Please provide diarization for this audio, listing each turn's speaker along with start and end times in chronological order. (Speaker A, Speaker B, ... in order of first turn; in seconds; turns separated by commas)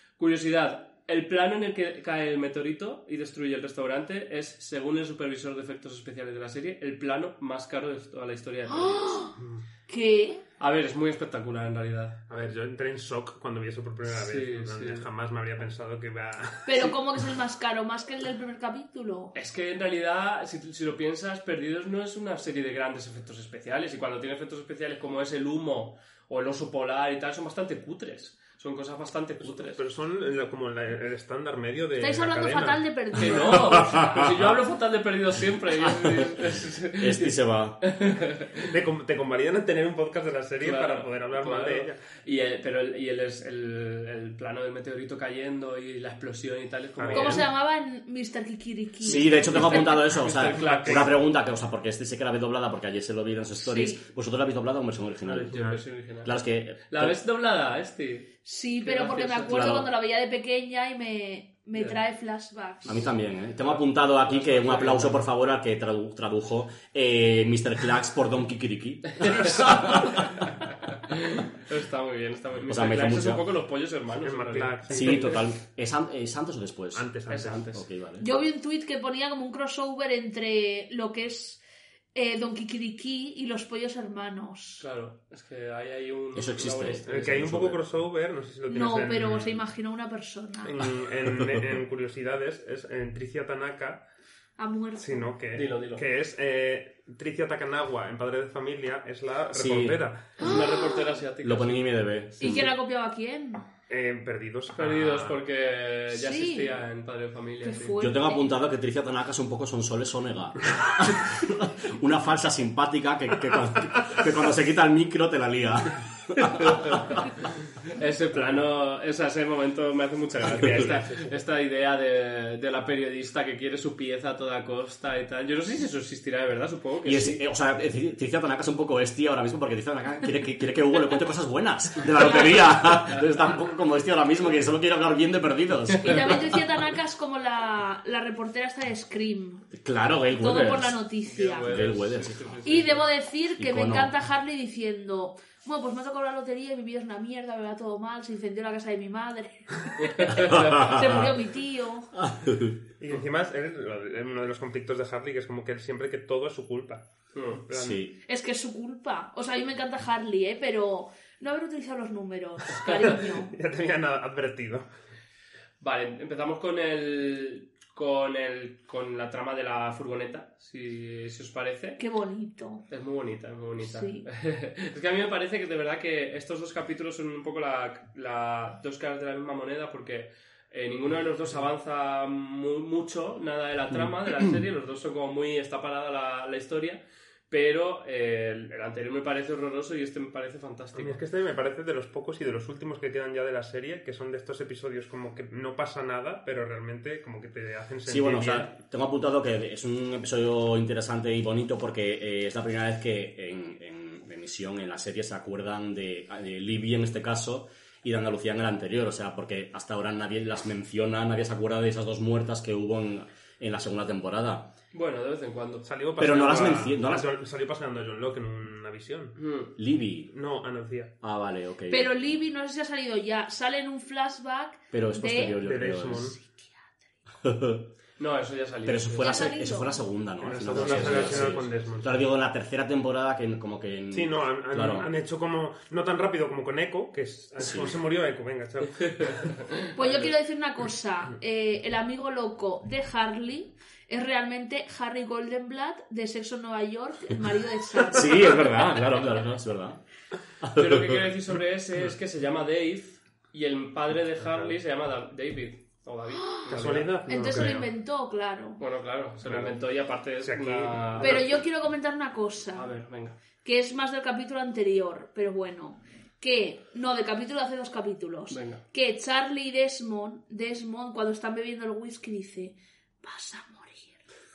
Speaker A: 0.2-9.2, Speaker B: 8.7-9.3, Speaker C: 9.4-9.6, Speaker B: 9.9-10.4, Speaker A: 10.6-12.2, Speaker C: 12.3-17.0, Speaker A: 14.1-15.1, Speaker B: 16.7-19.3, Speaker A: 19.3-29.8, Speaker C: 29.4-32.9, Speaker B: 32.0-33.8, Speaker A: 33.2-38.6, Speaker D: 35.8-36.3, Speaker D: 37.0-37.8, Speaker C: 38.6-42.0, Speaker A: 40.6-47.5, Speaker C: 47.0-47.5, Speaker B: 47.1-50.0, Speaker D: 49.0-57.2, Speaker A: 49.1-51.1, Speaker C: 50.5-51.1, Speaker B: 53.6-54.0, Speaker A: 55.3-56.4, Speaker C: 55.3-55.8, Speaker A: 56.9-59.8, Speaker B: 58.5-63.1, Speaker D: 59.5-59.9, Speaker D: 62.9-70.5, Speaker A: 64.0-65.2, Speaker A: 69.2-70.5, Speaker A: 71.1-75.3, Speaker D: 72.7-73.5, Speaker C: 74.2-75.3, Speaker D: 74.9-78.3, Speaker C: 77.0-77.7, Speaker A: 77.3-77.8, Speaker B: 78.2-81.6, Speaker B: 82.2-84.8, Speaker A: 84.8-87.5, Speaker D: 86.3-87.8, Speaker C: 87.1-89.6, Speaker B: 88.7-90.7, Speaker C: 90.7-94.0, Speaker B: 94.6-95.3, Speaker C: 95.0-100.3, Speaker A: 95.5-96.0, Speaker D: 99.5-100.0, Speaker A: 100.4-102.1, Speaker B: 100.4-101.0, Speaker D: 101.4-102.7, Speaker B: 102.4-103.7, Speaker C: 103.9-105.4, Speaker A: 104.8-108.0, Speaker B: 106.1-106.8, Speaker B: 107.6-108.5, Speaker D: 108.0-117.2, Speaker A: 116.4-127.4, Speaker C: 120.4-121.3, Speaker D: 127.0-136.6, Speaker B: 136.0-139.7, Speaker D: 139.7-141.0, Speaker B: 140.4-141.7, Speaker A: 141.2-143.1, Speaker D: 141.7-142.7, Speaker B: 142.7-152.1, Speaker D: 143.6-144.1, Speaker A: 150.1-150.9, Speaker D: 150.4-151.3, Speaker D: 152.2-152.8, Speaker C: 153.0-158.0, Speaker A: 157.3-157.6, Speaker D: 157.7-158.2, Speaker B: 158.3-163.5, Speaker A: 162.8-163.2, Speaker C: 163.0-164.9, Speaker A: 165.8-172.0, Speaker B: 172.0-172.8, Speaker A: 172.9-191.2, Speaker B: 173.8-174.3, Speaker C: 191.0-198.7, Speaker D: 198.1-214.7, Speaker A: 214.9-215.9, Speaker C: 215.8-219.4, Speaker D: 216.2-217.3, Speaker A: 219.4-219.7, Speaker D: 219.8-220.3, Speaker C: 220.3-221.1, Speaker D: 221.2-222.1, Speaker B: 221.9-225.6, Speaker D: 224.9-226.3, Speaker C: 225.6-226.4, Speaker B: 226.4-226.9, Speaker D: 227.4-227.9, Speaker A: 228.2-229.5, Speaker D: 228.8-235.1, Speaker B: 229.2-230.0, Speaker C: 230.4-232.2, Speaker A: 230.7-231.7, Speaker C: 234.1-239.6, Speaker D: 237.6-238.0, Speaker B: 239.9-248.4, Speaker D: 248.1-250.0, Speaker D: 250.6-251.3, Speaker A: 250.8-257.6, Speaker C: 254.4-254.8, Speaker B: 256.4-256.7, Speaker C: 256.7-257.9, Speaker B: 257.3-258.8, Speaker A: 258.8-261.4, Speaker C: 259.4-259.8, Speaker C: 260.4-261.5, Speaker B: 261.2-262.9, Speaker A: 262.7-263.4, Speaker B: 263.6-274.2, Speaker A: 268.5-268.8